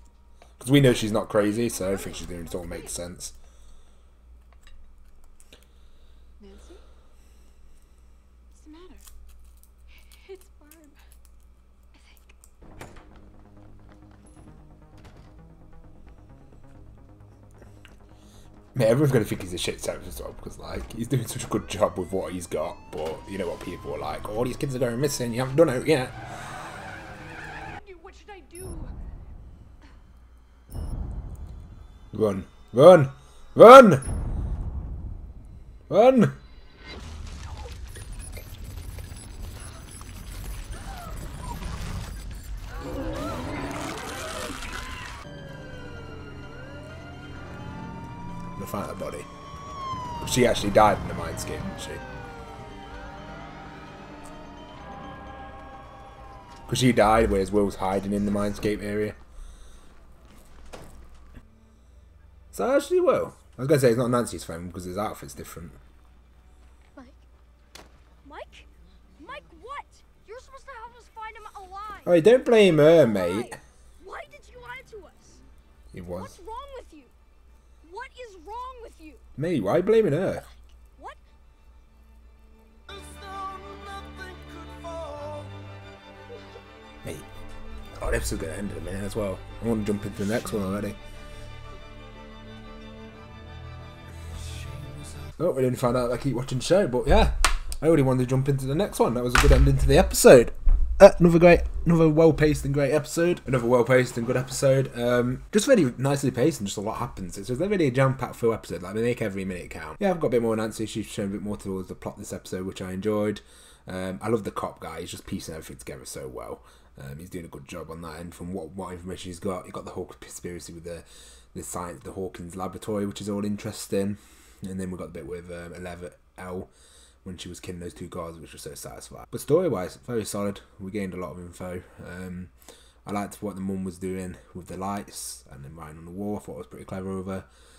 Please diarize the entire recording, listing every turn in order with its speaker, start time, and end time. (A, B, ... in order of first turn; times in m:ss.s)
0:00.6-0:03.3 A
0:01.6-0:02.9 B
0:06.4-0:06.8 B
0:08.5-0:09.0 B
0:10.1-0:11.0 B
0:12.0-0:12.3 B
0:18.7-0:26.2 A
0:27.8-0:28.9 B
0:32.1-0:34.1 A
0:35.9-0:36.4 A
0:48.6-0:49.3 A
0:50.2-0:52.0 A
0:56.7-0:59.2 A
1:02.5-1:05.8 A
1:08.2-1:08.6 B
1:09.2-1:12.1 B
1:12.0-1:13.6 A
1:13.0-1:15.4 B
1:15.9-1:16.3 A
1:16.2-1:17.1 B
1:17.8-1:19.2 B
1:19.4-1:20.4 A
1:20.9-1:21.2 B
1:28.0-1:31.0 A
1:35.4-2:06.7 A
2:07.2-2:12.5 A
2:13.0-2:17.5 A